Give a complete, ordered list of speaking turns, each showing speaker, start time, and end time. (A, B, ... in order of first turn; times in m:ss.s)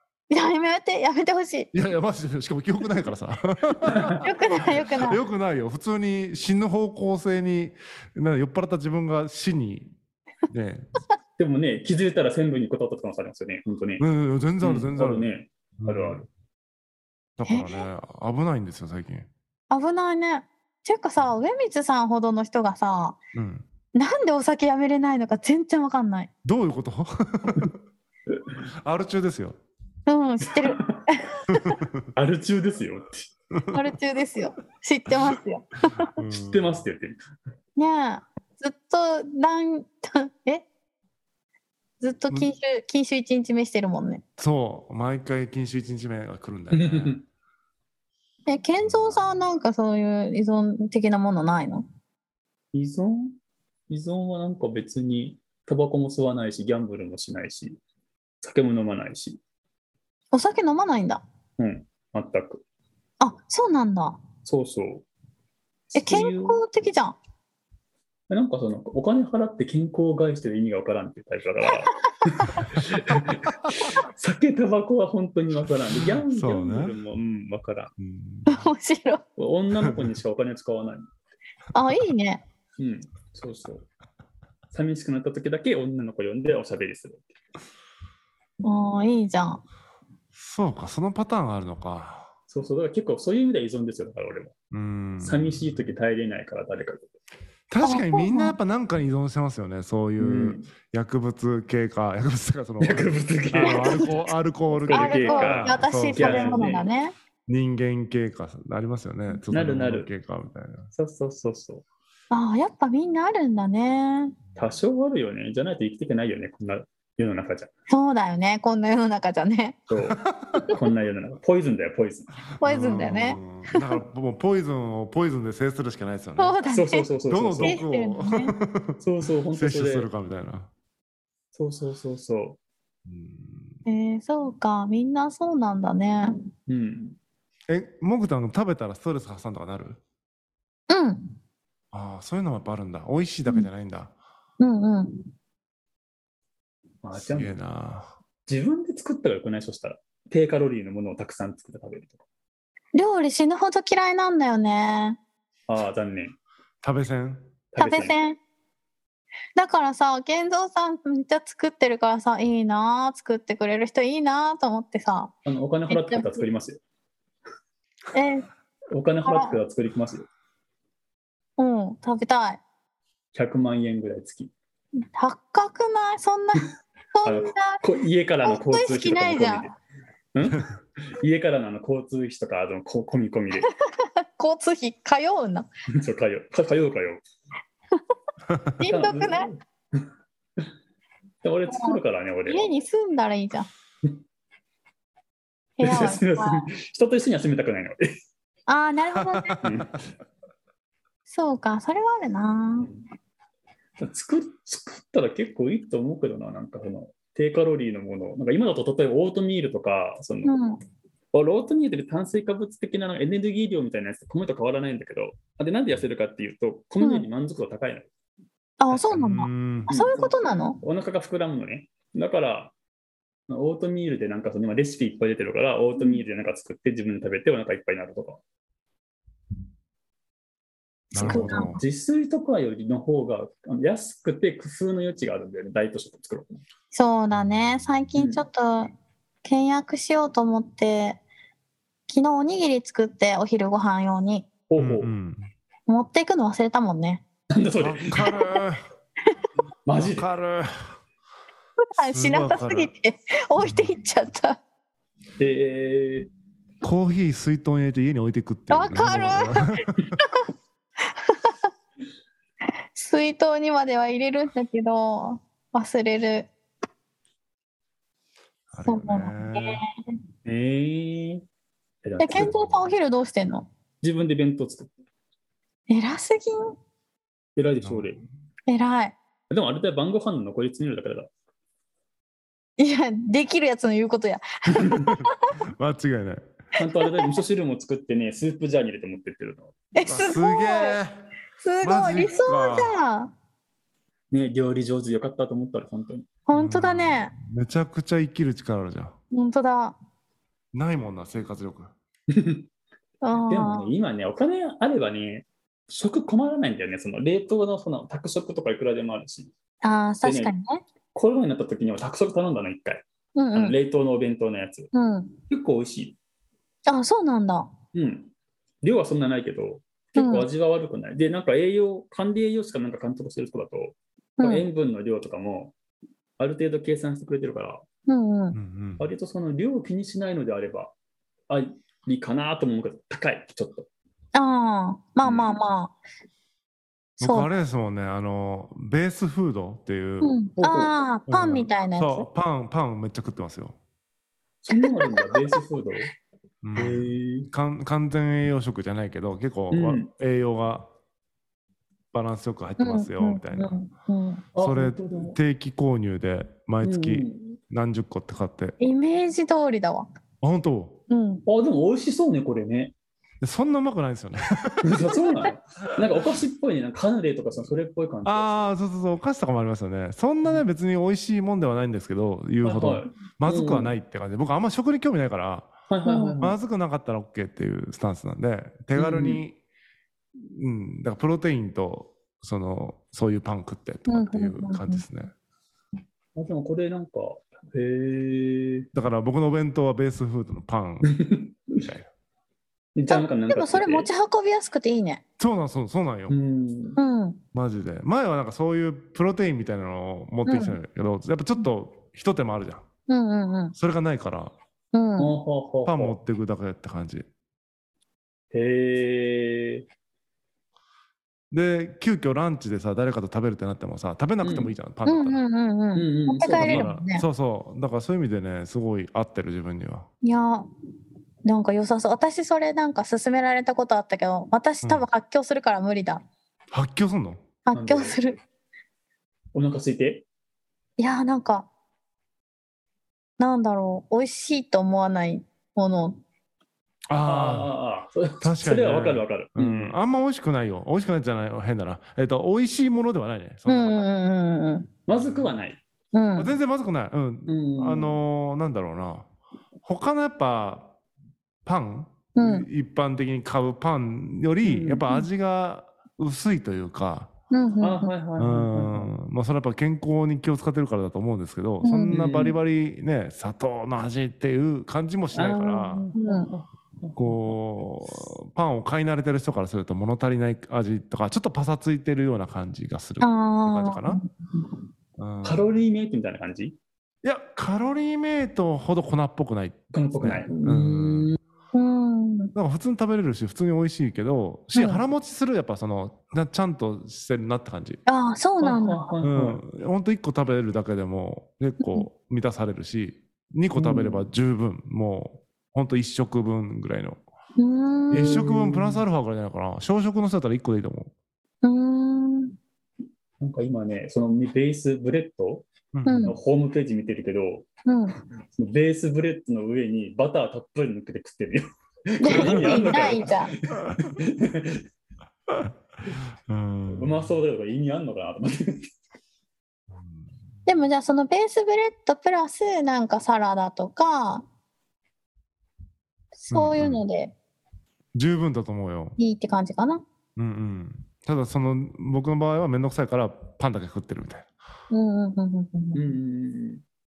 0:00.3-0:01.7 A
0:01.7-0:09.9 B
0:03.8-0:04.2 C
0:04.2-0:05.2 A
0:10.5-0:10.9 B
0:11.4-0:14.0 C
0:14.0-0:15.3 B
0:14.6-0:16.3 C
0:15.8-0:16.2 B
0:17.4-0:19.3 B
0:17.5-0:17.8 A
0:19.7-0:23.2 A
0:23.3-0:23.7 B
0:23.9-0:26.3 A
0:26.4-0:27.8 B
0:28.3-0:28.6 C
0:28.7-0:29.6 B
0:30.1-0:31.8 A
0:30.4-0:31.1 C
0:31.5-0:32.1 B
0:32.1-0:33.3 C
0:33.5-0:33.9 B
0:33.7-0:36.1 A
0:36.0-0:36.8 B
0:36.3-0:37.2 C
0:37.8-0:40.6 A
0:42.0-0:44.2 A
0:44.4-0:47.2 B
0:46.7-0:47.2 C
0:48.4-0:51.8 A
0:48.8-0:49.4 B
0:52.7-0:53.3 C
0:53.9-0:57.8 C
0:58.4-0:59.4 C
1:00.3-1:01.2 A
1:01.6-1:02.6 C
1:03.2-1:04.2 A
1:04.4-1:05.0 C
1:05.9-1:06.6 C
1:06.0-1:07.2 A
1:08.3-1:17.9 C
1:16.3-1:17.0 B
1:18.0-1:18.6 B
1:18.5-1:19.2 A
1:19.4-1:21.1 C
1:21.7-1:22.4 A
1:22.8-1:23.8 C
1:24.7-1:27.3 C
1:28.6-1:29.6 A
1:30.3-1:32.3 B
1:32.5-1:34.5 C
1:34.7-1:35.9 B
1:35.2-1:37.1 C
1:37.7-1:46.7 B
1:37.8-1:38.6 A
1:40.2-1:40.7 C
1:42.8-1:44.1 C
1:43.6-1:44.0 A
1:44.7-1:46.8 C
1:44.9-1:47.1 A
1:47.5-1:50.9 B
1:49.5-1:50.1 C
1:50.9-1:51.8 C
1:52.3-1:54.4 A
1:54.5-1:57.7 C
1:57.9-1:59.8 A
1:59.9-2:02.4 C
2:00.2-2:00.7 B
2:02.6-2:06.6 B
2:02.6-2:03.8 A
2:06.4-2:07.0 A
2:06.7-2:07.8 C
2:07.3-2:09.0 B
2:07.6-2:08.6 A
2:09.0-2:10.1 C
2:09.5-2:10.7 B
2:11.5-2:12.6 C
2:13.0-2:13.8 B
2:13.8-2:16.4 A
2:16.7-2:17.2 C
2:17.7-2:20.0 B
2:20.9-2:21.3 A
2:21.9-2:24.1 B
2:24.6-2:25.3 A
2:27.0-2:27.5 C
2:27.1-2:28.1 B
2:28.5-2:32.2 C
2:32.9-2:35.2 A
2:35.7-2:36.4 C
2:36.8-2:37.5 B
2:37.7-2:38.2 C
2:37.8-2:38.4 A
2:39.6-2:45.3 A
2:45.4-2:46.8 C
2:45.9-2:46.4 A
2:48.1-2:48.5 A
2:48.9-2:50.3 C
2:49.2-2:49.6 A
2:51.6-2:52.6 A
2:53.3-2:54.5 C
2:55.0-2:57.8 A
2:57.2-2:59.8 C
2:58.4-2:59.7 A
3:00.3-3:03.7 C
3:03.6-3:05.7 A
3:05.9-3:07.2 C
3:08.8-3:09.5 A
3:08.8-3:10.0 C
3:11.4-3:12.6 C
3:11.7-3:13.7 A
3:15.8-3:16.7 A
3:15.8-3:18.1 C
3:18.7-3:19.6 A
3:19.1-3:19.7 B
3:19.6-3:20.0 C
3:21.3-3:22.9 A
3:22.8-3:23.0 C
3:24.0-3:30.5 C
3:30.4-3:30.8 A
3:31.3-3:38.1 C
3:37.0-3:37.3 A
3:38.8-3:40.8 A
3:38.9-3:39.9 B
3:39.9-3:42.7 C
3:43.5-3:48.4 C
3:46.0-3:46.2 A
3:51.1-3:51.8 A
3:51.1-3:51.8 B
3:51.2-3:56.6 C
3:56.9-4:01.2 A
3:57.3-3:57.8 B
3:58.1-3:58.4 C
4:02.1-4:04.5 A
4:04.7-4:05.1 C
4:04.8-4:05.5 B
4:05.9-4:07.2 A
4:07.5-4:08.3 C
4:07.8-4:08.8 B
4:09.8-4:10.3 C
4:10.0-4:11.0 B
4:11.9-4:14.6 A
4:12.0-4:12.9 B
4:13.6-4:13.9 B
4:15.4-4:16.3 C
4:16.8-4:20.1 B
4:18.7-4:20.4 A
4:21.2-4:21.6 A
4:22.9-4:26.5 A
4:28.7-4:29.8 B
4:28.8-4:29.9 A
4:30.4-4:31.4 C
4:32.0-4:32.7 C
4:32.2-4:33.7 A
4:34.0-4:34.9 C
4:35.9-4:36.8 A
4:37.6-4:38.2 C
4:37.8-4:38.2 B
4:38.7-4:39.2 A
4:39.5-4:41.3 C
4:42.8-4:45.4 A
4:44.7-4:45.1 C
4:45.2-4:46.4 B
4:46.7-4:49.7 C
4:49.9-4:51.0 A
4:50.0-4:51.2 B
4:51.6-4:53.3 A
4:51.8-4:52.9 B
4:54.3-4:56.2 C
4:56.5-4:57.3 A
4:56.5-4:59.1 B
4:59.3-5:00.0 A
5:00.7-5:01.9 B
5:02.3-5:02.6 C
5:03.2-5:03.9 A
5:03.5-5:09.5 C
5:09.8-5:10.8 A
5:10.2-5:10.5 C
5:11.1-5:14.9 C
5:13.4-5:13.7 A
5:14.9-5:15.4 A
5:15.5-5:16.2 C
5:16.8-5:17.7 A
5:17.9-5:18.3 C
5:18.8-5:25.7 C
5:20.2-5:20.5 A
5:24.4-5:24.6 A
5:26.4-5:27.8 C
5:28.1-5:28.6 A
5:28.5-5:29.1 B
5:29.0-5:30.9 C
5:31.5-5:33.9 C
5:34.3-5:35.9 A
5:35.2-5:35.5 C
5:37.2-5:37.5 A
5:37.2-5:40.4 B
5:40.2-5:42.3 A
5:40.6-5:40.9 C
5:41.3-5:43.8 B
5:44.6-5:46.1 C
5:44.7-5:45.6 A
5:46.6-5:50.9 B
5:46.7-5:47.5 C
5:49.7-5:50.1 C
5:52.1-5:53.8 B
5:52.8-5:54.4 A
5:54.5-5:55.4 C
5:54.6-5:58.8 B
5:56.8-5:57.6 C
5:58.8-6:00.1 A
6:00.4-6:01.0 B
6:01.1-6:01.4 A
6:01.4-6:02.9 C
6:03.4-6:05.1 B
6:04.8-6:08.6 C
6:08.2-6:15.7 B
6:12.6-6:13.9 C
6:15.9-6:16.6 C
6:16.0-6:16.4 A
6:16.4-6:19.6 B
6:19.0-6:19.4 C
6:20.4-6:25.3 B
6:24.1-6:25.0 A
6:26.4-6:28.9 C
6:28.9-6:31.2 B
6:31.0-6:31.8 C
6:31.8-6:32.1 B
6:33.0-6:34.1 C
6:33.1-6:35.2 A
6:35.4-6:36.4 B
6:36.3-6:37.0 C
6:37.0-6:37.4 A
6:37.5-6:42.8 B
6:40.4-6:40.8 A
6:43.1-6:43.7 A
6:43.8-6:44.5 B
6:44.9-6:45.3 A
6:45.2-6:46.2 C
6:45.8-6:47.3 B
6:48.5-6:49.8 C
6:51.5-6:55.4 B
6:54.4-6:54.7 C
6:55.0-6:57.2 A
6:55.9-6:56.9 C
6:56.5-7:00.1 B
7:00.2-7:00.7 A
7:01.4-7:06.2 A
7:06.7-7:07.4 B
7:07.6-7:08.4 A
7:07.7-7:08.2 C
7:09.5-7:10.2 C
7:11.0-7:11.7 A
7:13.4-7:16.2 A
7:17.1-7:17.7 B
7:17.2-7:20.0 C
7:18.4-7:24.0 B
7:23.7-7:24.9 A
7:25.1-7:25.8 C
7:25.1-7:25.5 B
7:26.1-7:26.5 A
7:26.4-7:29.3 B
7:27.5-7:28.2 C
7:29.8-7:30.9 B
7:31.6-7:37.3 B
7:32.4-7:32.7 A
7:34.6-7:35.2 C
7:37.5-7:38.1 A
7:37.8-7:39.1 C
7:38.4-7:46.1 B
7:41.8-7:42.2 A
7:42.1-7:42.6 C
7:45.3-7:47.6 C
7:46.1-7:46.5 A
7:47.2-7:54.2 B
7:53.2-7:54.7 A
7:55.2-7:55.7 B
7:55.4-7:56.8 C
7:57.2-8:01.3 B
7:59.9-8:01.4 C
8:01.7-8:02.5 A
8:02.5-8:08.0 B
8:04.7-8:05.0 A
8:08.0-8:09.0 A
8:08.6-8:09.6 C
8:09.2-8:17.2 B
8:13.7-8:14.3 C
8:17.6-8:18.4 A
8:18.1-8:19.0 C
8:18.1-8:21.1 B
8:21.6-8:22.6 A
8:23.4-8:25.7 C
8:25.9-8:26.3 B
8:26.0-8:26.4 A
8:26.2-8:27.7 C
8:27.8-8:28.2 A
8:28.5-8:34.8 C
8:32.2-8:33.5 A
8:32.5-8:33.0 B
8:36.5-8:37.3 B
8:36.9-8:38.9 C
8:40.6-8:44.4 A
8:46.4-8:47.3 A
8:46.5-8:47.0 B
8:48.1-8:49.2 B
8:49.2-8:50.0 A
8:50.4-8:54.5 B
8:54.9-8:56.2 A
8:55.9-8:56.8 C